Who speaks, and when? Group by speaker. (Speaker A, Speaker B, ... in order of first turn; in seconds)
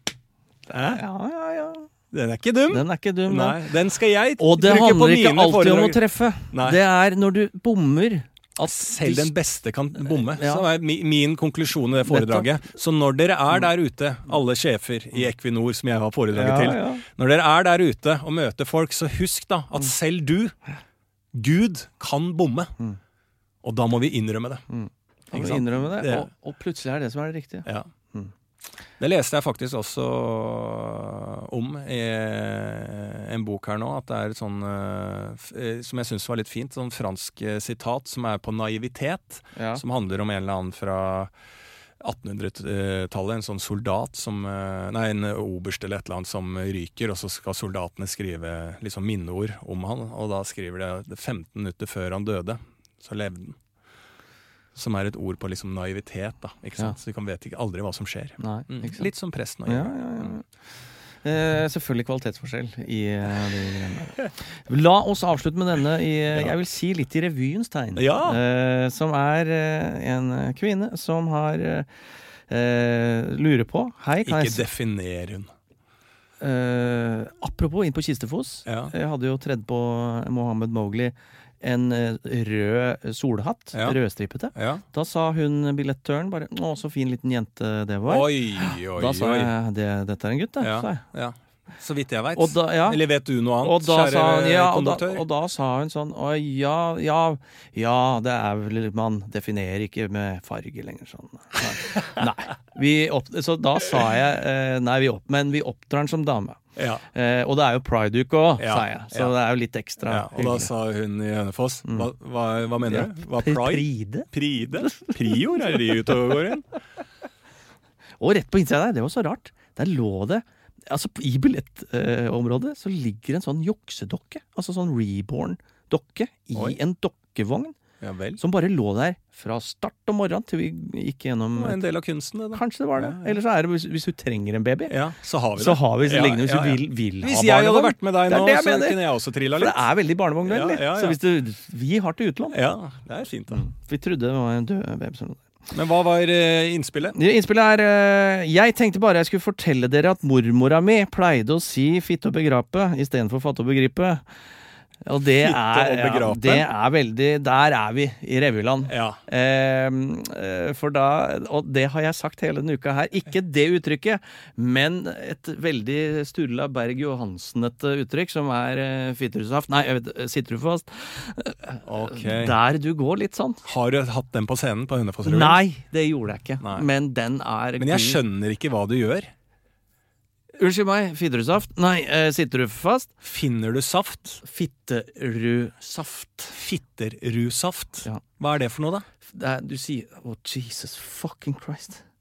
Speaker A: 0.7-1.0, 2.1-6.8, 8.6-20.6, 21.3-22.8, 23.6-24.7, 25.3-26.3, 29.0-41.3, 42.0-53.6, 54.8-60.4, 68.0-68.4, 74.2-75.5, 78.7-78.9, 84.5-84.8, 88.1-89.5, 90.6-95.2, 106.8-107.0, 108.6-109.3, 110.1-116.7, 128.0-128.4, 131.6-133.4, 134.9-139.8, 140.4-141.2, 142.5-143.7, 145.7-147.2, 155.4-156.7, 158.9-159.2, 171.8-172.6, 173.7-175.6, 176.6-176.9, 177.8-179.3, 183.2-184.4, 186.5-189.1
Speaker B: 0.9-1.9, 2.7-3.6, 4.4-9.3, 10.0-10.6, 12.1-12.5, 16.3-17.0, 24.7-28.3, 39.5-39.8, 58.4-59.1, 59.7-60.5, 61.2-71.9, 72.5-74.7, 76.4-91.0, 92.4-93.0, 93.6-110.7, 112.9-114.3, 114.8-115.2, 118.2-127.8, 128.4-131.8, 132.5-134.9, 135.6-139.0, 139.6-142.6, 143.5-145.4, 147.2-154.2, 155.0-173.7, 175.2-178.2, 180.6-183.2, 184.4-186.6, 189.2-192.0